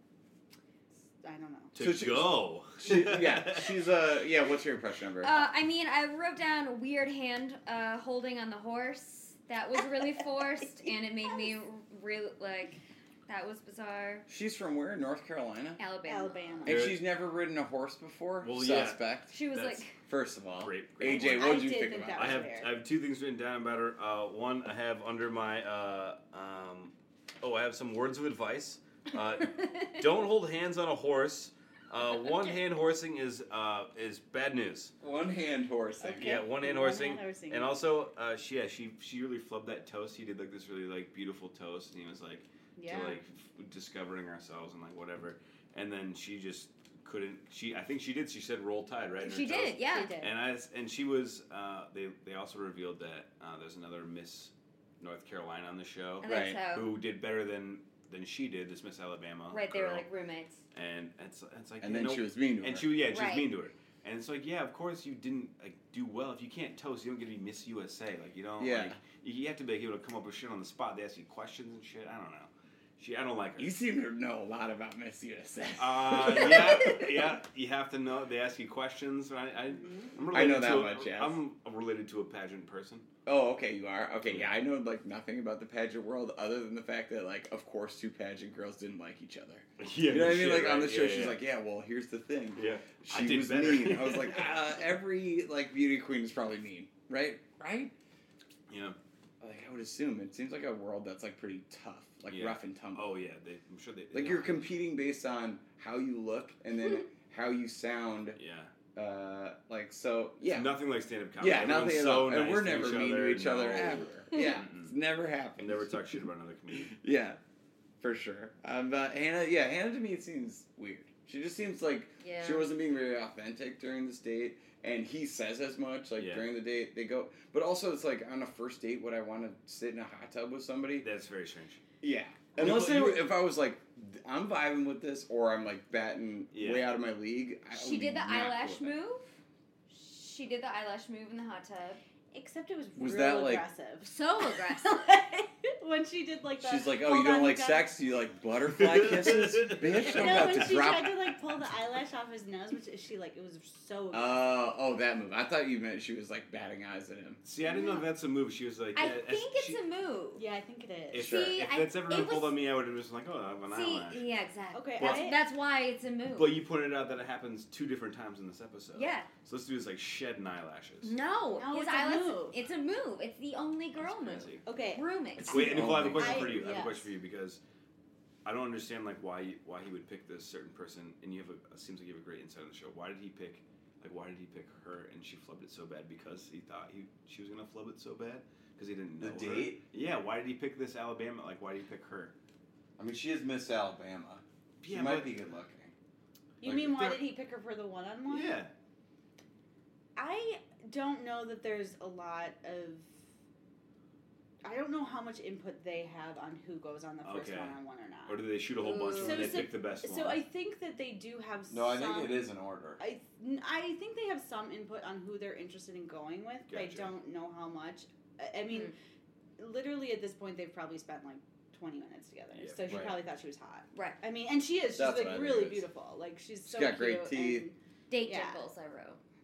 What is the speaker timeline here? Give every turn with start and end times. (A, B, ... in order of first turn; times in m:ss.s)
0:01.2-0:01.8 A
0:01.7-0:03.8 B
0:01.8-0:05.4 C
0:05.2-0:14.3 D
0:14.3-0:15.8 C
0:15.8-0:16.7 D
0:16.0-0:16.9 A
0:16.6-0:19.4 C
0:16.7-0:17.0 B
0:18.4-0:19.8 B
0:19.3-0:19.9 D
0:20.1-0:22.5 C
0:20.6-0:21.6 B
0:21.0-0:22.8 A
0:22.2-0:34.9 B
0:35.0-0:36.4 C
0:36.0-0:37.8 A
0:36.2-1:00.1 B
0:42.8-0:43.2 A
0:49.2-0:50.2 D
0:49.8-0:50.3 A
0:56.2-0:57.0 D
0:56.2-0:56.6 C
0:59.5-1:00.6 D
1:00.7-1:13.7 B
1:01.8-1:03.0 C
1:03.1-1:03.5 D
1:08.6-1:09.0 C
1:13.6-1:17.4 C
1:15.8-1:23.1 B
1:19.8-1:20.1 A
1:20.3-1:21.4 C
1:23.3-1:37.9 C
1:24.2-1:24.5 B
1:29.8-1:31.4 B
1:32.6-1:34.5 B
1:38.7-1:39.0 B
1:39.4-1:43.1 C
1:42.3-1:44.7 B
1:44.1-1:48.4 C
1:48.4-1:48.7 B
1:49.0-1:50.7 C
1:50.4-1:54.9 B
1:51.4-1:56.0 C
1:55.6-1:57.0 B
1:56.8-1:57.4 C
1:58.0-2:11.1 C
2:02.2-2:02.7 D
2:06.2-2:06.5 B
2:11.0-2:11.8 B
2:12.0-2:19.0 C
2:12.6-2:13.3 B
2:16.5-2:16.9 B
2:17.7-2:19.3 D
2:19.9-2:22.0 D
2:22.3-2:27.9 A
2:23.0-2:23.6 C
2:24.0-2:25.1 D
2:26.6-2:31.3 C
2:28.7-2:30.6 B
2:30.0-2:34.5 A
2:34.1-2:37.4 C
2:37.4-2:39.8 B
2:37.6-2:38.0 D
2:39.0-2:40.4 D
2:40.4-2:41.3 A
2:41.1-2:44.2 B
2:41.2-2:41.6 C
2:41.2-2:42.6 D
2:43.7-2:46.6 D
2:44.7-2:45.4 A
2:45.0-2:45.3 B
2:46.4-2:51.2 B
2:49.0-2:49.3 D
2:51.0-2:55.7 D
2:51.5-2:52.6 A
2:54.0-2:54.6 B
2:54.6-2:55.0 A
2:55.4-2:56.6 C
2:55.5-2:57.6 B
2:56.1-2:57.1 A
2:58.4-3:12.3 B
3:09.2-3:09.8 C
3:13.0-3:15.9 C
3:14.8-3:15.4 B
3:16.6-3:18.6 A
3:16.6-3:17.2 B
3:18.3-3:18.7 B
3:20.2-3:23.1 A
3:24.6-3:28.4 A
3:27.2-3:30.4 B
3:28.8-3:29.6 D
3:29.2-3:32.5 A
3:31.7-3:33.0 C
3:33.0-3:38.9 A
3:36.7-3:37.1 B
3:39.6-3:48.6 A
3:42.5-3:43.2 B
3:42.9-3:43.1 C
3:43.9-3:44.2 D
3:45.0-3:45.8 C
3:46.7-3:47.7 C
3:48.1-3:49.2 D